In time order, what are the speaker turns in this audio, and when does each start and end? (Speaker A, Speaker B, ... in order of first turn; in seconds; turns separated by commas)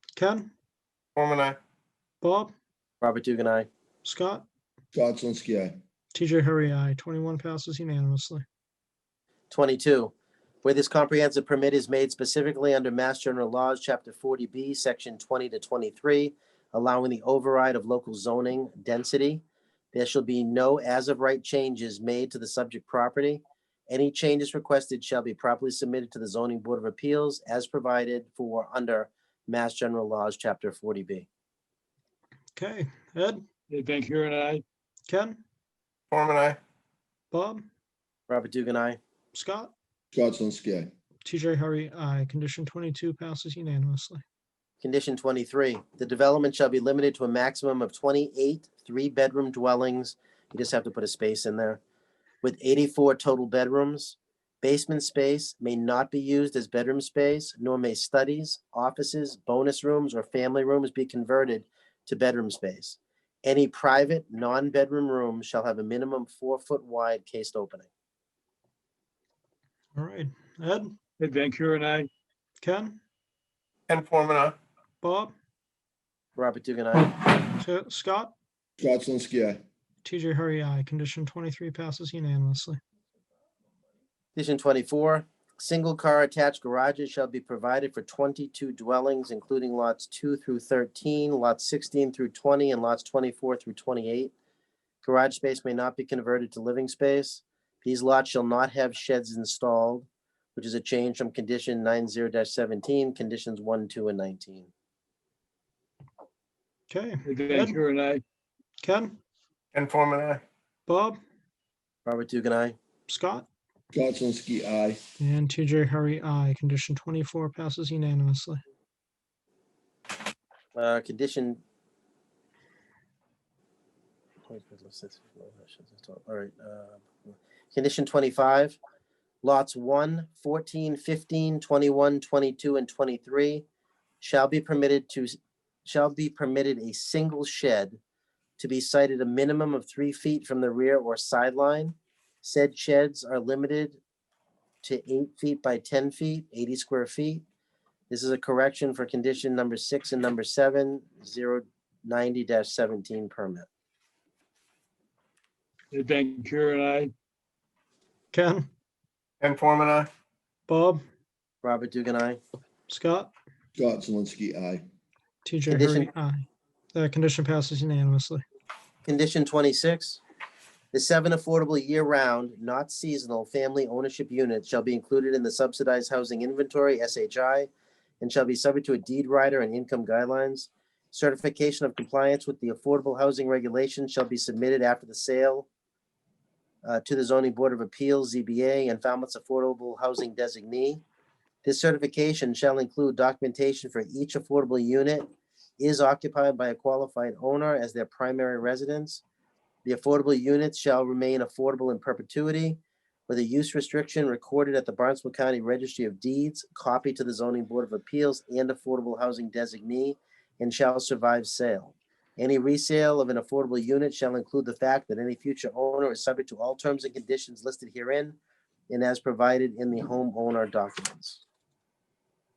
Speaker A: 0.2-0.5, Speaker B: 1.2-1.6, Speaker A: 2.2-2.5, Speaker C: 3.0-3.7, Speaker A: 4.0-4.5, Speaker D: 4.9-5.8, Speaker A: 6.1-8.4, Speaker C: 9.5-31.3, Speaker A: 32.6-33.4, Speaker E: 33.7-34.6, Speaker A: 35.1-35.4, Speaker B: 36.1-36.6, Speaker A: 37.3-37.7, Speaker C: 38.3-39.0, Speaker A: 39.3-39.7, Speaker D: 40.1-40.9, Speaker A: 41.2-44.2, Speaker C: 44.8-51.8, Speaker C: 52.4-67.9, Speaker A: 70.0-71.0, Speaker E: 71.2-72.1, Speaker A: 72.6-73.0, Speaker B: 73.9-74.6, Speaker A: 75.0-75.3, Speaker C: 76.4-77.2, Speaker A: 77.6-78.3, Speaker D: 78.8-79.6, Speaker A: 80.0-82.8, Speaker C: 84.3-94.3, Speaker C: 95.0-104.7, Speaker A: 106.9-107.8, Speaker E: 107.3-108.2, Speaker A: 108.8-109.2, Speaker B: 109.7-110.4, Speaker A: 110.9-111.2, Speaker C: 112.0-112.8, Speaker A: 113.1-113.5, Speaker D: 113.9-115.0, Speaker A: 115.2-118.6, Speaker C: 120.8-121.6, Speaker C: 124.5-128.8, Speaker C: 129.4-133.7, Speaker C: 134.2-138.0, Speaker C: 138.6-144.0, Speaker C: 144.8-147.4, Speaker C: 148.1-153.7, Speaker E: 155.9-157.1, Speaker A: 158.3-158.7, Speaker B: 159.4-160.1, Speaker A: 160.7-161.0, Speaker C: 161.6-162.4, Speaker A: 162.9-163.3, Speaker D: 163.8-164.8, Speaker A: 165.4-168.4, Speaker C: 165.7-166.1, Speaker C: 169.0-170.2, Speaker C: 170.9-177.7, Speaker C: 178.2-185.7, Speaker C: 186.8-191.0, Speaker C: 191.6-195.3, Speaker C: 195.8-199.2, Speaker C: 199.8-218.4, Speaker C: 218.9-221.4